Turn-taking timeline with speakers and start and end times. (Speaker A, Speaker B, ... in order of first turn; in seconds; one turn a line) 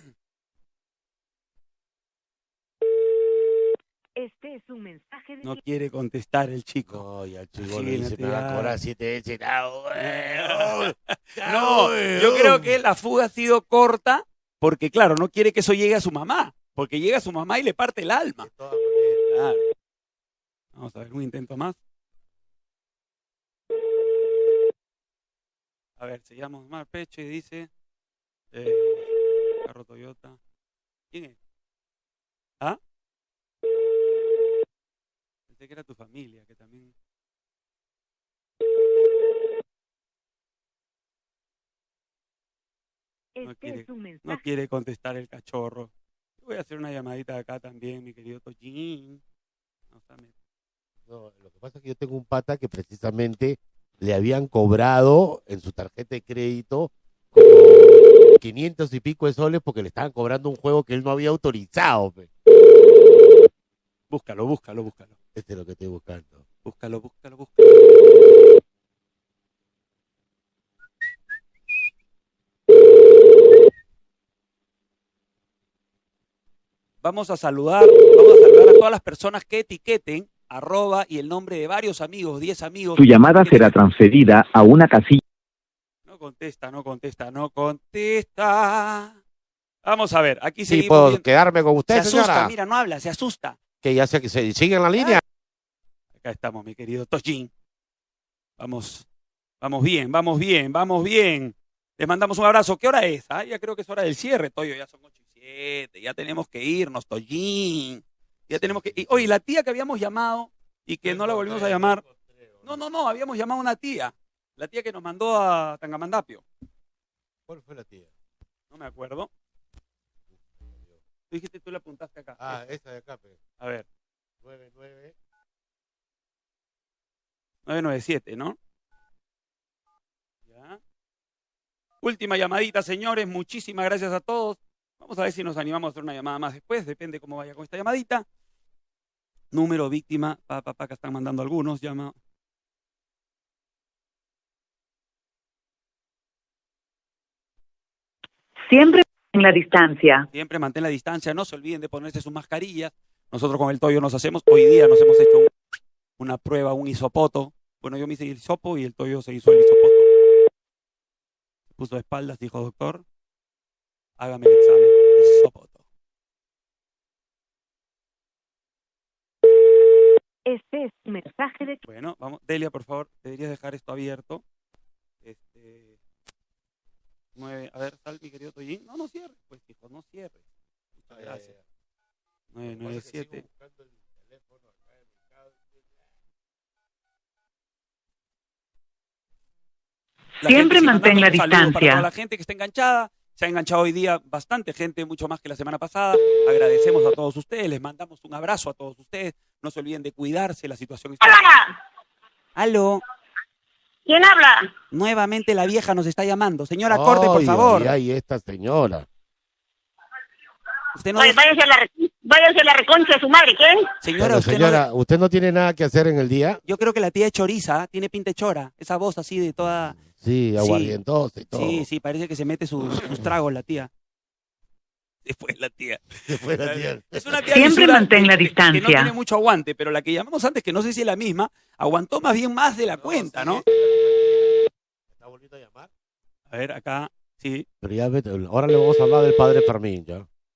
Speaker A: 4.2-5.6
Speaker B: 5.4-7.0
Speaker C: 6.9-12.8
Speaker B: 7.6-8.8
Speaker B: 10.0-18.5
Speaker C: 18.4-19.3
Speaker B: 19.3-19.6
Speaker B: 20.8-21.8
Speaker B: 26.0-27.7
Speaker B: 28.5-29.1
Speaker B: 29.6-30.4
Speaker B: 35.5-36.9
Speaker A: 43.4-44.4
Speaker B: 43.4-45.9
Speaker B: 46.4-49.2
Speaker B: 49.9-50.3
Speaker C: 51.1-62.3
Speaker B: 64.1-65.1
Speaker C: 65.3-66.4
Speaker B: 66.6-67.8
Speaker B: 77.0-83.8
Speaker D: 83.0-85.2
Speaker B: 86.1-89.2
Speaker B: 89.8-91.3
Speaker C: 90.7-92.5
Speaker B: 91.9-93.6
Speaker C: 93.8-95.2
Speaker B: 96.2-97.5
Speaker B: 98.6-99.1
Speaker B: 99.6-112.0
Speaker C: 108.5-109.3
Speaker C: 111.0-112.8
Speaker B: 112.6-116.4
Speaker C: 117.5-118.1
Speaker B: 118.7-119.3
Speaker C: 120.4-121.0
Speaker B: 121.3-122.6
Speaker C: 122.4-123.4
Speaker B: 123.6-123.8
Speaker C: 124.4-125.2
Speaker B: 127.7-128.6
Speaker B: 130.5-130.8
Speaker B: 132.0-138.2
Speaker B: 139.5-142.2
Speaker A: 148.7-150.2
Speaker B: 150.3-155.5
Speaker B: 156.2-160.1
Speaker B: 161.8-163.0
Speaker B: 164.2-165.8
Speaker A: 170.4-171.8
Speaker B: 171.8-174.4
Speaker B: 175.2-175.9
Speaker B: 177.4-180.4
Speaker B: 181.0-181.5
Speaker C: 181.1-181.6
Speaker B: 182.5-183.4
Speaker C: 182.6-185.9
Speaker B: 190.4-201.4
Speaker A: 191.1-191.7
Speaker E: 201.2-201.8
Speaker B: 202.6-203.0
Speaker E: 204.1-204.7
Speaker B: 204.9-208.0
Speaker C: 206.9-209.1
Speaker B: 210.9-211.4
Speaker E: 211.2-213.9
Speaker B: 214.0-214.8
Speaker C: 214.2-216.6
Speaker B: 216.7-220.0
Speaker C: 220.0-221.9
Speaker B: 220.6-221.0
Speaker B: 221.5-223.9
Speaker B: 225.3-233.6
Speaker C: 226.3-227.5
Speaker A: 227.7-229.0
Speaker C: 233.0-234.6
Speaker C: 235.1-235.9
Speaker B: 236.5-237.7
Speaker C: 237.8-240.3